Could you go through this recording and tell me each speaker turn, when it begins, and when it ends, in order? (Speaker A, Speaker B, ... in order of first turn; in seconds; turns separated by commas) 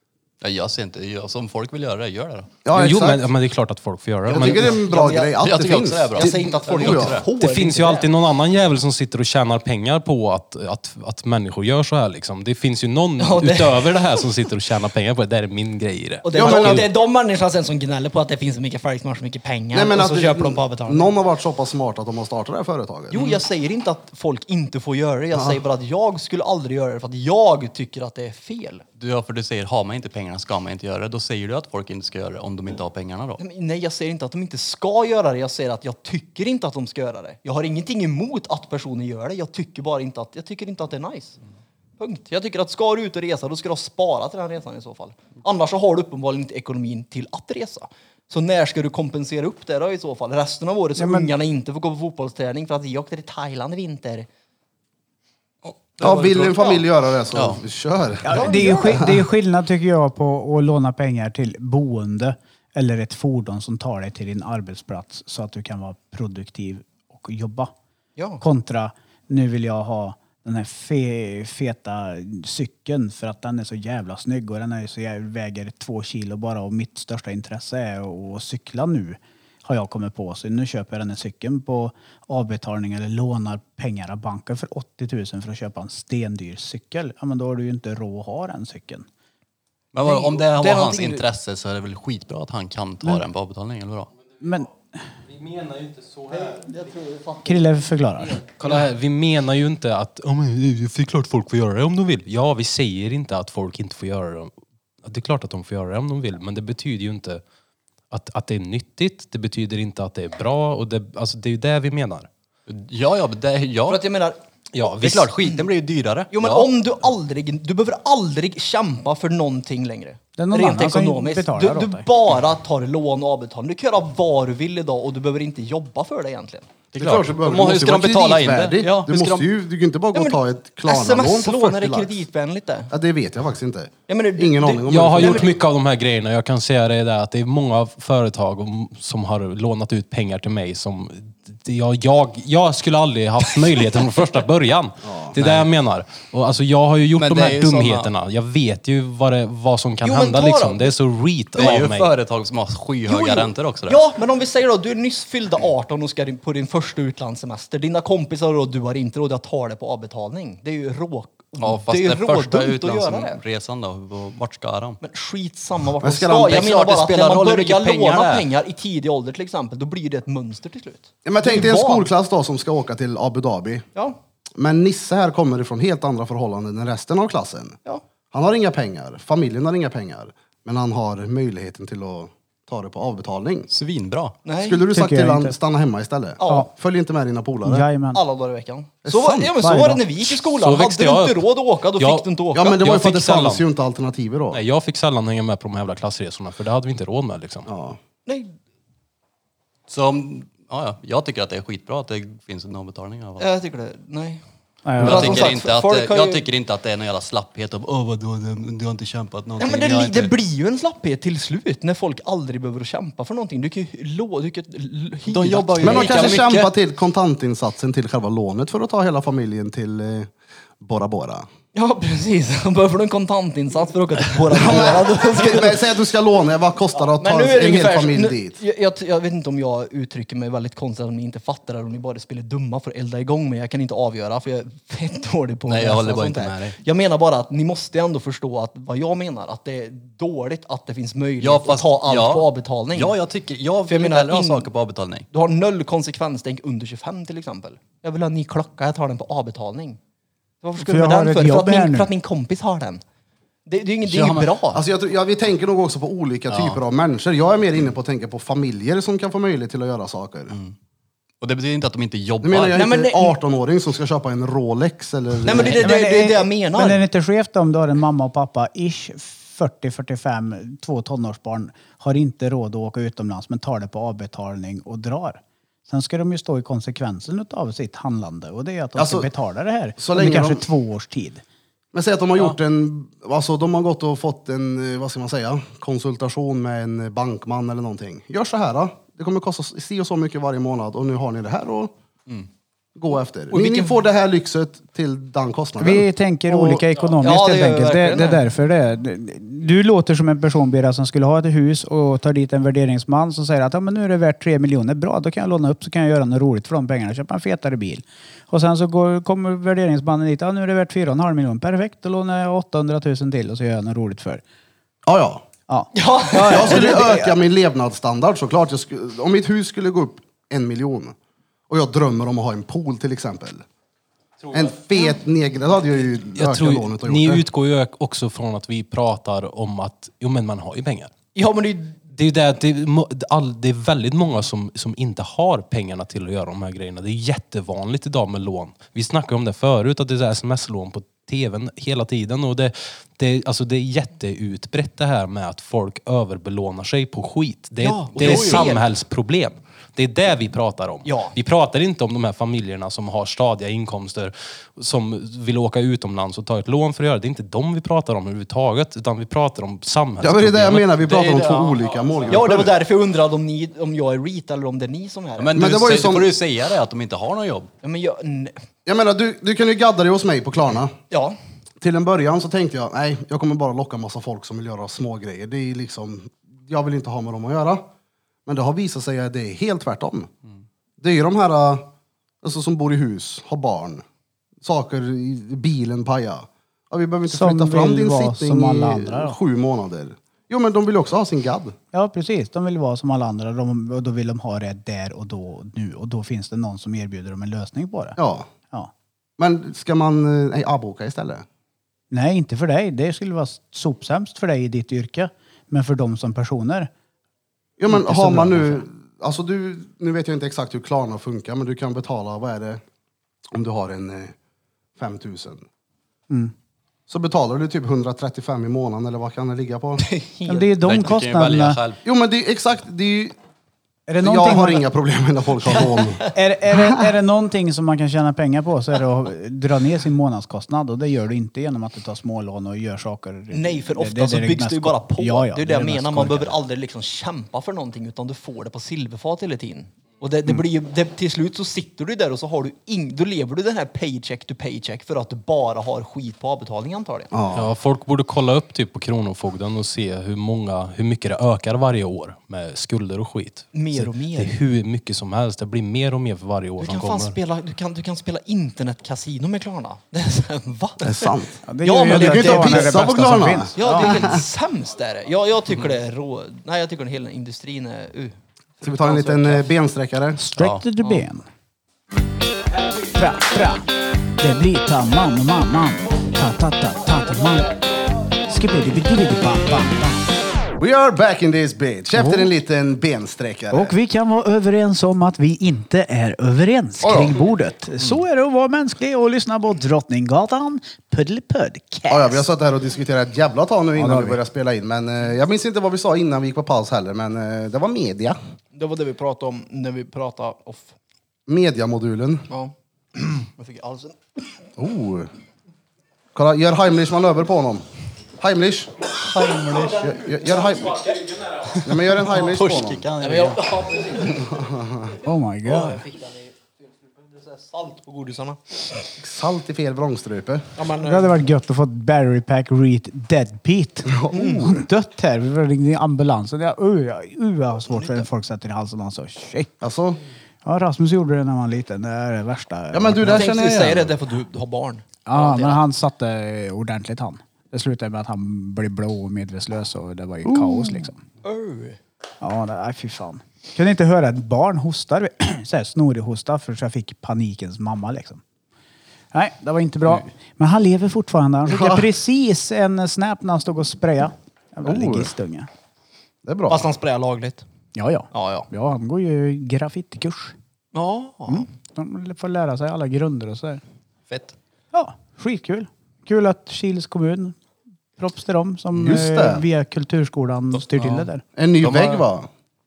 Speaker A: 0.4-2.6, Speaker B: 2.6-3.3, Speaker C: 2.7-4.7, Speaker B: 4.3-7.2, Speaker D: 4.4-5.5, Speaker A: 5.4-7.2, Speaker D: 6.2-8.1, Speaker C: 7.3-16.9, Speaker D: 13.2-14.2, Speaker D: 16.2-21.1, Speaker B: 16.4-16.9, Speaker B: 19.7-23.2, Speaker D: 23.1-28.8, Speaker B: 25.3-25.6, Speaker A: 29.0-33.4, Speaker D: 33.4-41.4, Speaker D: 42.0-54.3, Speaker E: 51.0-51.3, Speaker A: 55.6-56.6, Speaker B: 56.0-59.2, Speaker D: 56.1-56.8, Speaker A: 57.3-57.6, Speaker E: 58.3-67.7, Speaker D: 58.3-59.0, Speaker D: 68.2-68.4, Speaker E: 68.4-89.1, Speaker A: 89.9-94.1, Speaker D: 90.0-91.2, Speaker E: 94.4-94.7, Speaker C: 95.3-96.7, Speaker D: 96.3-97.7, Speaker E: 97.4-98.4, Speaker C: 98.4-104.5, Speaker C: 105.0-107.4, Speaker C: 108.1-112.3, Speaker A: 112.7-114.0, Speaker D: 113.9-114.4, Speaker C: 114.7-115.3, Speaker A: 115.0-116.7, Speaker D: 116.3-126.7, Speaker E: 120.4-122.1, Speaker A: 126.9-129.5, Speaker B: 127.0-132.2, Speaker D: 130.1-132.9, Speaker B: 132.9-135.5, Speaker D: 134.1-135.5, Speaker C: 134.9-152.1, Speaker B: 145.0-145.4, Speaker A: 145.4-145.7, Speaker A: 147.2-148.1, Speaker D: 150.0-150.9, Speaker A: 151.6-154.0, Speaker D: 151.6-151.8, Speaker D: 153.1-163.4, Speaker A: 161.6-165.0, Speaker D: 165.0-172.1, Speaker B: 166.0-166.6, Speaker A: 166.4-168.5, Speaker B: 171.2-173.9, Speaker B: 174.6-177.8, Speaker B: 178.3-183.7, Speaker A: 183.7-184.4, Speaker D: 184.4-184.8, Speaker B: 184.6-187.9, Speaker E: 184.9-185.6, Speaker D: 186.4-186.7, Speaker E: 187.7-188.2, Speaker D: 188.1-192.8, Speaker B: 189.0-189.6, Speaker E: 189.6-190.1, Speaker C: 190.2-191.5, Speaker C: 192.0-193.6, Speaker B: 192.5-194.6, Speaker C: 194.5-197.7, Speaker B: 197.7-198.0, Speaker D: 198.3-198.5, Speaker A: 199.9-203.5, Speaker D: 203.4-204.4, Speaker E: 204.8-205.4, Speaker D: 205.0-206.4, Speaker A: 205.0-210.3, Speaker D: 209.6-216.4, Speaker A: 215.3-216.7, Speaker B: 215.8-221.5, Speaker D: 221.7-225.8, Speaker B: 224.5-228.6, Speaker D: 227.2-243.2, Speaker A: 235.7-236.8, Speaker A: 241.4-245.3, Speaker D: 243.9-244.7, Speaker D: 245.3-250.0, Speaker D: 250.6-253.0, Speaker E: 250.8-252.1, Speaker D: 253.7-254.8, Speaker A: 254.1-254.6, Speaker B: 254.7-260.6, Speaker A: 256.5-256.8, Speaker A: 261.4-262.8, Speaker B: 262.4-265.8, Speaker D: 262.8-263.4, Speaker D: 265.4-267.0, Speaker E: 265.8-281.4, Speaker B: 279.0-279.3, Speaker B: 280.0-280.7, Speaker B: 281.9-291.9, Speaker B: 292.9-296.9, Speaker D: 293.5-294.0, Speaker E: 295.8-314.4, Speaker D: 297.2-298.4, Speaker B: 315.1-315.4, Speaker E: 315.7-317.4, Speaker D: 315.9-316.8, Speaker B: 316.4-321.1, Speaker B: 321.7-323.6, Speaker B: 324.5-327.4, Speaker C: 326.4-331.1, Speaker D: 331.4-332.0, Speaker C: 332.0-361.0, Speaker D: 347.8-348.9, Speaker A: 348.2-348.7, Speaker D: 351.0-351.4, Speaker B: 360.2-362.8, Speaker A: 361.0-362.3, Speaker D: 362.3-365.6, Speaker A: 365.4-367.7, Speaker B: 365.6-366.3, Speaker D: 367.8-368.6, Speaker B: 368.9-370.9, Speaker D: 371.1-371.4, Speaker B: 371.8-377.9, Speaker B: 378.5-380.3, Speaker B: 381.0-381.9, Speaker B: 382.4-384.0, Speaker B: 384.6-391.8, Speaker E: 387.3-389.4, Speaker E: 391.9-398.2, Speaker B: 398.2-398.5, Speaker B: 399.4-401.5, Speaker E: 402.1-406.9, Speaker B: 407.8-412.8, Speaker E: 407.9-408.9, Speaker B: 413.5-414.4, Speaker B: 415.0-415.6, Speaker B: 417.1-420.1, Speaker D: 420.0-420.8, Speaker E: 420.5-421.8, Speaker A: 420.8-422.0, Speaker B: 422.1-423.4, Speaker E: 424.1-424.8, Speaker B: 424.2-427.0, Speaker E: 426.3-436.6, Speaker D: 433.5-447.3, Speaker B: 447.3-447.7, Speaker C: 447.5-457.4, Speaker D: 453.7-454.6, Speaker D: 456.8-463.0, Speaker B: 461.0-464.4, Speaker E: 461.7-464.2, Speaker D: 463.8-469.7, Speaker B: 468.8-470.4, Speaker E: 470.4-471.4, Speaker A: 470.6-470.9, Speaker E: 473.1-473.9, Speaker E: 474.4-477.7, Speaker E: 478.5-480.3, Speaker B: 480.8-483.9, Speaker E: 482.2-482.5, Speaker E: 483.7-492.4, Speaker B: 487.0-487.4, Speaker B: 492.1-498.4, Speaker E: 494.0-494.4, Speaker D: 498.7-500.9, Speaker B: 501.5-502.5, Speaker D: 502.5-504.2, Speaker B: 504.8-505.3, Speaker B: 506.4-507.8, Speaker B: 508.4-508.9, Speaker A: 509.2-510.0, Speaker D: 509.4-510.1, Speaker B: 510.0-511.1, Speaker A: 511.7-513.6, Speaker B: 511.8-513.0, Speaker D: 513.2-514.5, Speaker B: 514.3-515.1, Speaker E: 515.2-516.0, Speaker D: 515.6-519.0, Speaker B: 519.2-520.7, Speaker D: 520.8-521.4, Speaker E: 521.0-529.7, Speaker B: 524.1-524.8, Speaker D: 524.3-524.7, Speaker D: 527.9-528.2, Speaker B: 529.8-530.2, Speaker E: 530.6-533.5, Speaker B: 532.9-534.1, Speaker D: 533.3-535.8, Speaker E: 535.3-541.2, Speaker B: 540.5-541.1, Speaker D: 541.4-542.0, Speaker E: 542.4-548.4, Speaker E: 549.3-555.7, Speaker B: 551.7-552.1, Speaker B: 554.8-555.3, Speaker B: 556.4-556.9, Speaker D: 556.7-557.6, Speaker E: 558.0-560.5, Speaker D: 558.3-558.7, Speaker D: 560.9-561.7, Speaker E: 561.5-563.8, Speaker A: 564.3-564.5, Speaker E: 564.9-567.6, Speaker E: 568.2-571.4, Speaker B: 568.9-569.7, Speaker A: 570.8-571.3, Speaker B: 571.6-572.5, Speaker A: 571.8-572.2